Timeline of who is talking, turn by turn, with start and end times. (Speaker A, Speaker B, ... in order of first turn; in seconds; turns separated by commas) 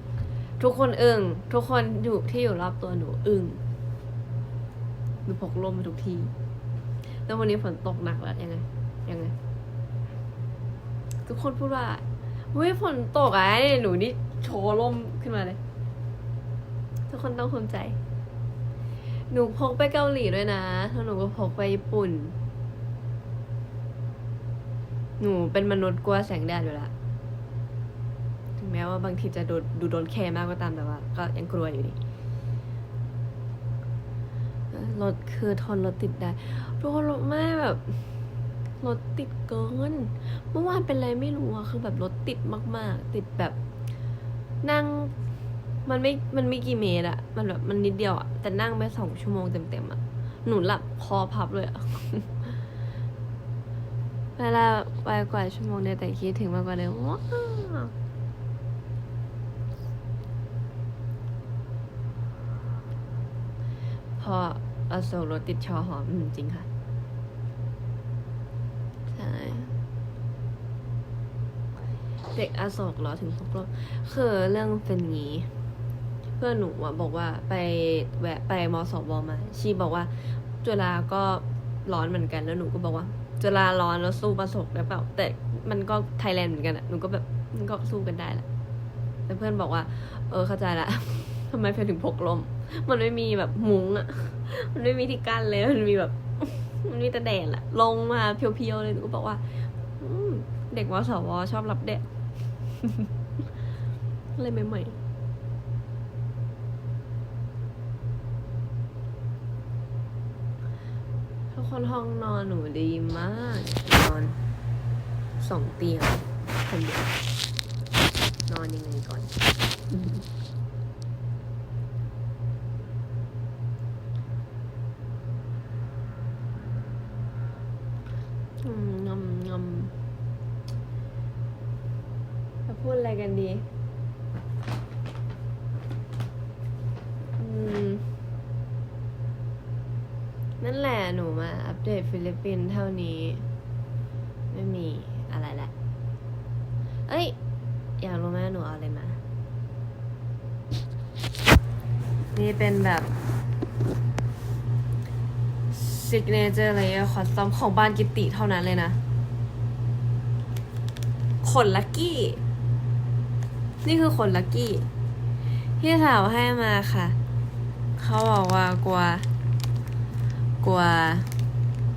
Speaker A: 0.6-3.6, Speaker A: 5.3-6.3, Speaker A: 7.3-9.3, Speaker A: 11.3-15.6, Speaker A: 17.1-18.0, Speaker A: 19.3-22.4, Speaker A: 25.2-26.9, Speaker A: 28.6-32.0, Speaker A: 34.7-38.0, Speaker A: 38.8-43.6, Speaker A: 44.6-45.1, Speaker A: 45.9-52.6, Speaker A: 54.4-57.9, Speaker A: 64.2-66.7, Speaker A: 69.1-69.8, Speaker A: 72.3-75.5, Speaker A: 76.4-88.5, Speaker A: 89.3-99.4, Speaker A: 100.0-102.1, Speaker A: 102.7-103.1, Speaker A: 104.3-105.0, Speaker A: 111.5-114.4, Speaker A: 115.4-117.2, Speaker A: 118.5-119.3, Speaker A: 119.9-120.2, Speaker A: 128.6-129.9, Speaker A: 132.7-133.7, Speaker A: 137.4-138.2, Speaker A: 140.6-143.5, Speaker A: 144.5-145.7, Speaker A: 147.1-147.4, Speaker A: 148.0-149.2, Speaker A: 152.3-153.1, Speaker A: 155.7-159.0, Speaker A: 161.4-162.4, Speaker A: 163.8-164.9, Speaker A: 165.8-167.2, Speaker A: 168.0-169.3, Speaker A: 170.6-171.3